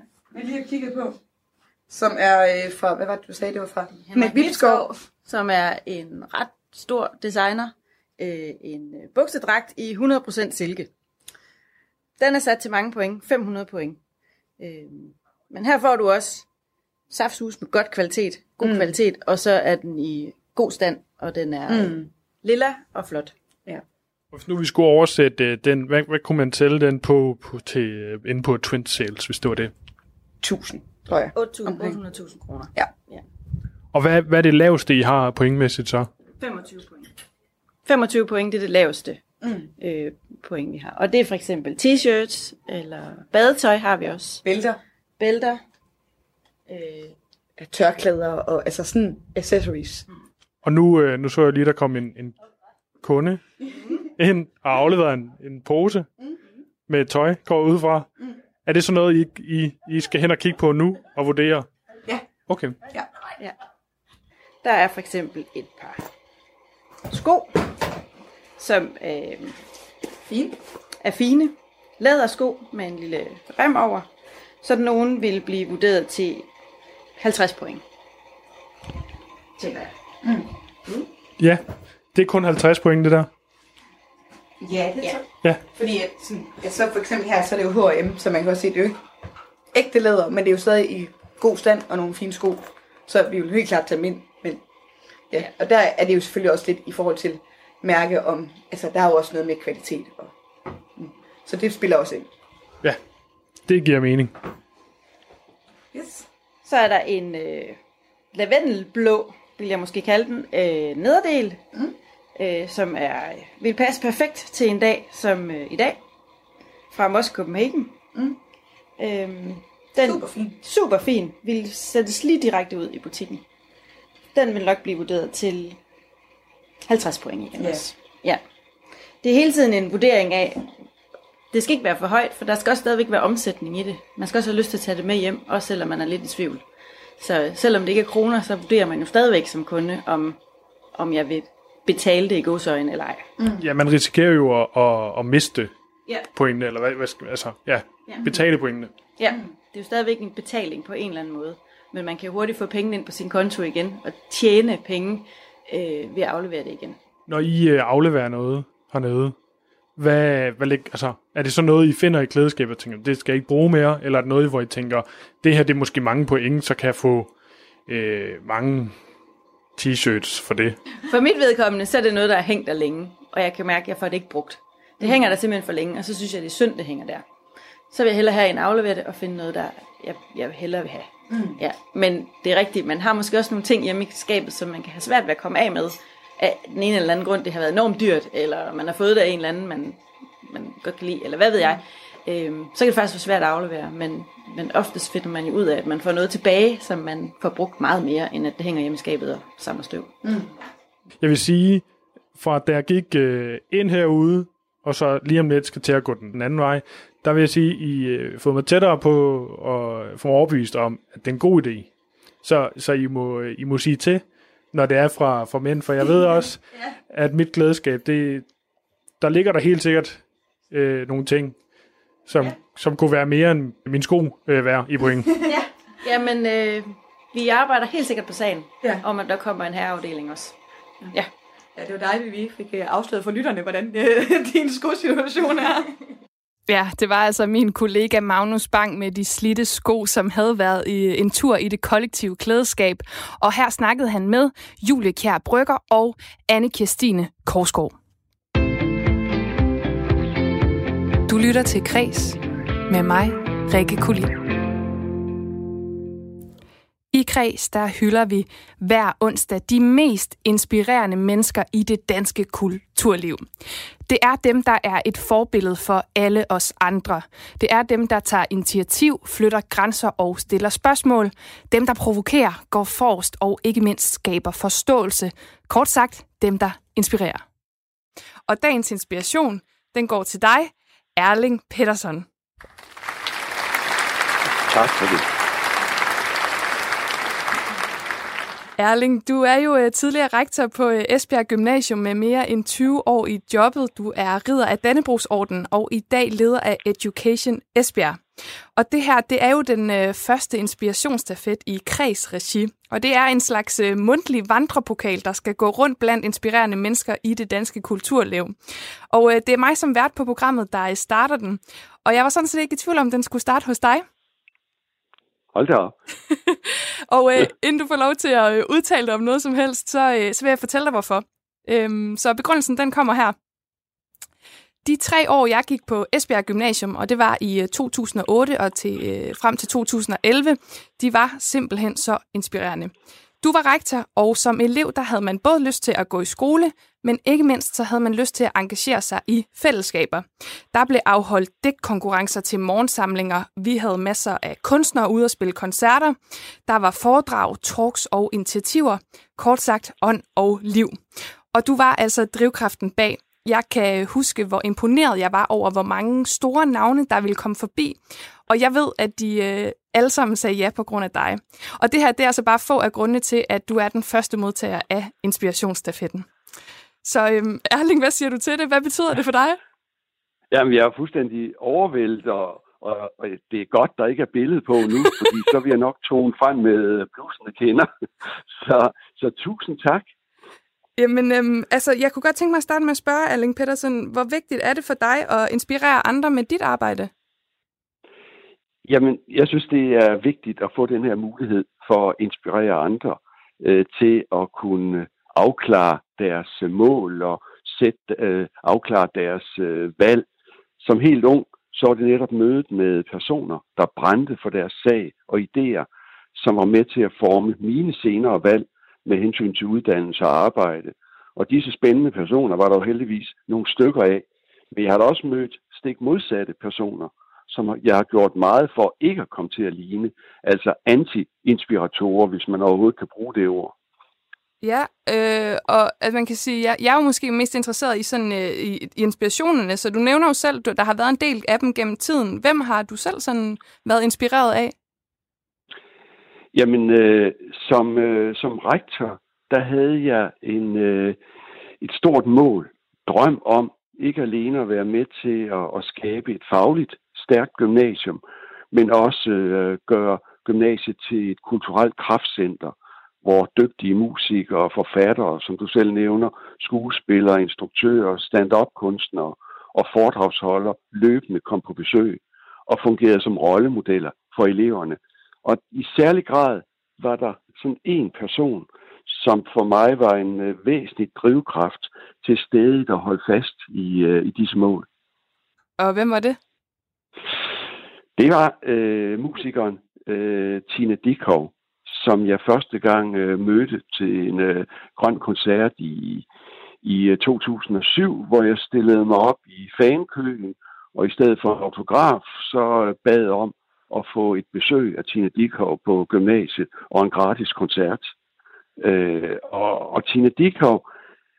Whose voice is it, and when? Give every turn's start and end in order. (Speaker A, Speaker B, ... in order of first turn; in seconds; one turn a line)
Speaker A: 0.3-1.1
Speaker A: 1.9-5.1
Speaker B: 4.0-10.9
Speaker B: 12.2-14.0
Speaker B: 14.6-16.4
Speaker B: 17.1-23.3
Speaker A: 18.6-18.9
Speaker A: 21.7-22.1
Speaker C: 24.3-29.7
Speaker A: 30.4-32.0
Speaker B: 31.3-33.2
Speaker C: 33.9-36.1
Speaker B: 36.4-37.1
Speaker B: 37.9-39.2
Speaker A: 39.4-39.7
Speaker B: 39.8-44.4
Speaker A: 44.4-44.8
Speaker B: 45.2-45.6
Speaker B: 46.7-47.1
Speaker A: 47.6-50.0
Speaker C: 50.6-52.3
Speaker C: 53.0-53.4
Speaker C: 54.1-56.1
Speaker C: 56.9-58.1
Speaker C: 58.6-61.7
Speaker C: 62.5-62.8
Speaker B: 64.6-66.0
Speaker A: 67.1-67.6
Speaker B: 68.6-69.5
Speaker A: 70.3-70.5
Speaker B: 71.0-74.1
Speaker B: 74.6-76.5
Speaker B: 77.2-77.8
Speaker B: 79.6-79.9
Speaker C: 82.1-83.3
Speaker A: 84.6-89.0
Speaker A: 89.7-94.6
Speaker A: 95.3-100.3
Speaker A: 101.0-102.3
Speaker C: 103.7-104.3
Speaker A: 105.9-106.2
Speaker B: 106.6-107.8
Speaker B: 108.3-111.6
Speaker B: 112.3-116.0
Speaker B: 116.9-118.0
Speaker B: 119.0-123.4
Speaker A: 120.0-120.6
Speaker B: 124.3-125.8
Speaker B: 126.8-128.4
Speaker A: 127.5-127.9
Speaker B: 129.2-130.7
Speaker B: 131.5-136.6
Speaker B: 137.2-140.4
Speaker B: 140.9-143.3
Speaker C: 143.6-145.7
Speaker C: 146.3-148.9
Speaker B: 148.1-148.3
Speaker B: 149.1-157.0
Speaker C: 157.3-159.3
Speaker C: 160.0-167.3
Speaker C: 167.9-168.9
Speaker C: 169.8-170.8
Speaker B: 171.0-177.2
Speaker A: 175.0-175.3
Speaker B: 177.9-200.2
Speaker A: 181.3-181.6
Speaker A: 200.2-200.5
Speaker C: 201.2-211.9
Speaker C: 212.4-218.4
Speaker C: 219.2-221.5
Speaker C: 222.3-225.4
Speaker A: 225.3-225.7
Speaker B: 225.5-230.6
Speaker A: 231.8-235.9
Speaker D: 236.7-247.9
Speaker D: 251.3-254.3
Speaker D: 257.1-263.4
Speaker D: 264.1-277.4
Speaker D: 278.5-282.2
Speaker E: 284.7-285.2
Speaker D: 288.8-298.2
Speaker D: 298.8-308.5
Speaker D: 309.1-314.1
Speaker E: 315.5-315.9
Speaker D: 316.3-323.4
Speaker D: 324.8-351.0
Speaker D: 351.5-366.3
Speaker D: 367.0-369.6
Speaker E: 370.5-377.9
Speaker E: 378.6-380.1
Speaker D: 381.0-387.1
Speaker E: 388.8-400.2
Speaker E: 400.8-423.7
Speaker D: 424.6-434.7
Speaker E: 436.5-441.2
Speaker E: 441.8-448.2
Speaker E: 448.7-474.9
Speaker D: 475.8-476.4
Speaker E: 478.2-486.2
Speaker E: 486.8-498.1
Speaker E: 498.8-500.8